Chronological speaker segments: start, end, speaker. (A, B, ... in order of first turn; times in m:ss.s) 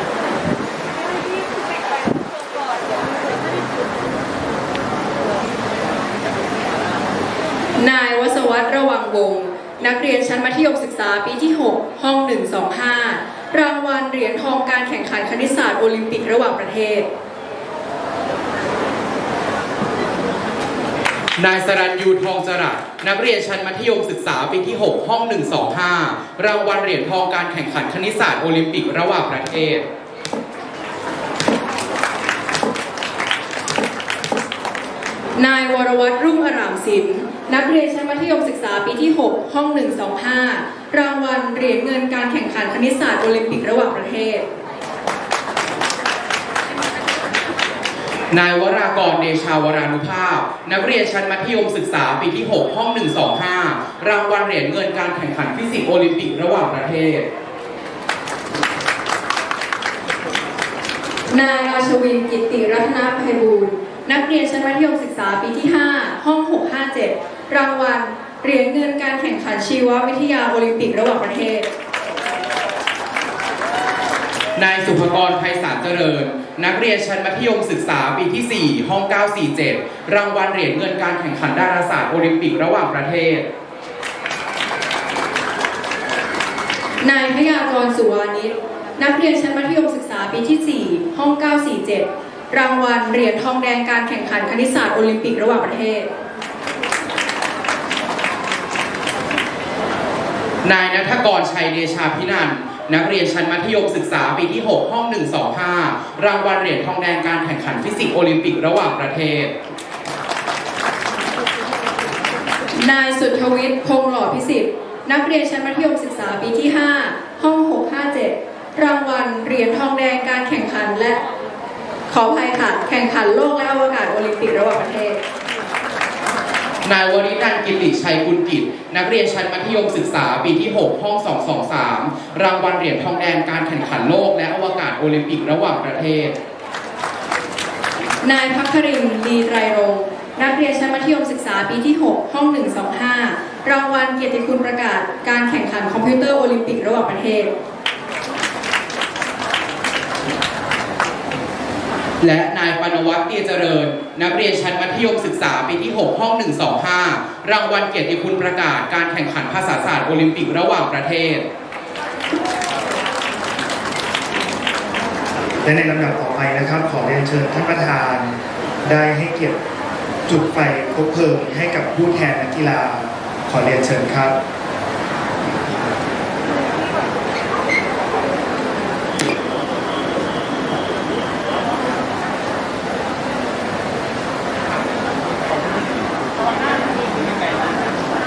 0:07.8-0:17.1 A
0:21.4-0:29.8 B
0:35.4-0:44.4 A
0:48.3-0:57.3 B
1:01.3-1:11.7 A
1:14.6-1:23.4 B
1:27.0-1:36.1 A
1:40.6-1:49.5 B
1:52.8-2:01.2 A
2:02.1-2:05.2 A
2:06.8-2:16.4 B
2:18.2-2:27.5 A
2:32.2-2:41.4 B
2:45.6-2:49.6 C
2:50.3-2:54.4 C